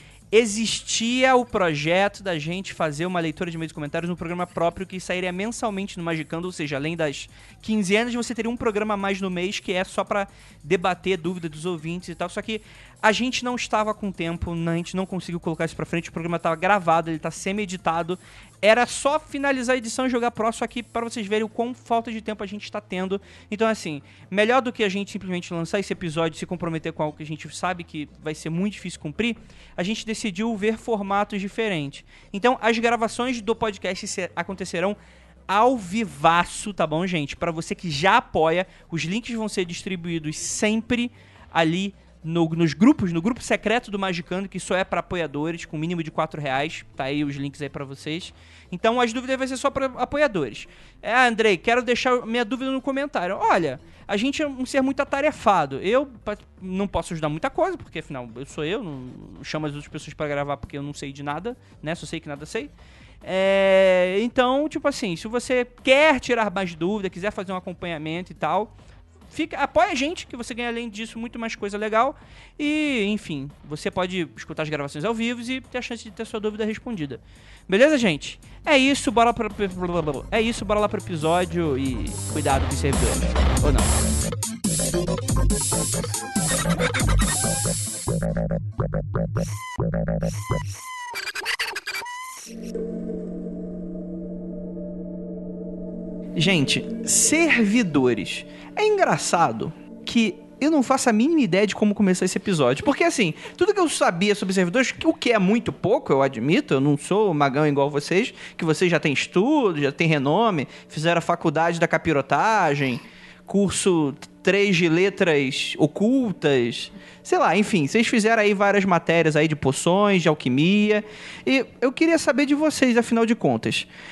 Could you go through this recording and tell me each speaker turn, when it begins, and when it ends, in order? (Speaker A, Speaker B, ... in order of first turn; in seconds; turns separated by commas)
Speaker A: 0.3-35.0, Speaker A: 35.5-62.7, Speaker A: 63.2-68.7, Speaker A: 69.3-84.0, Speaker A: 96.3-123.9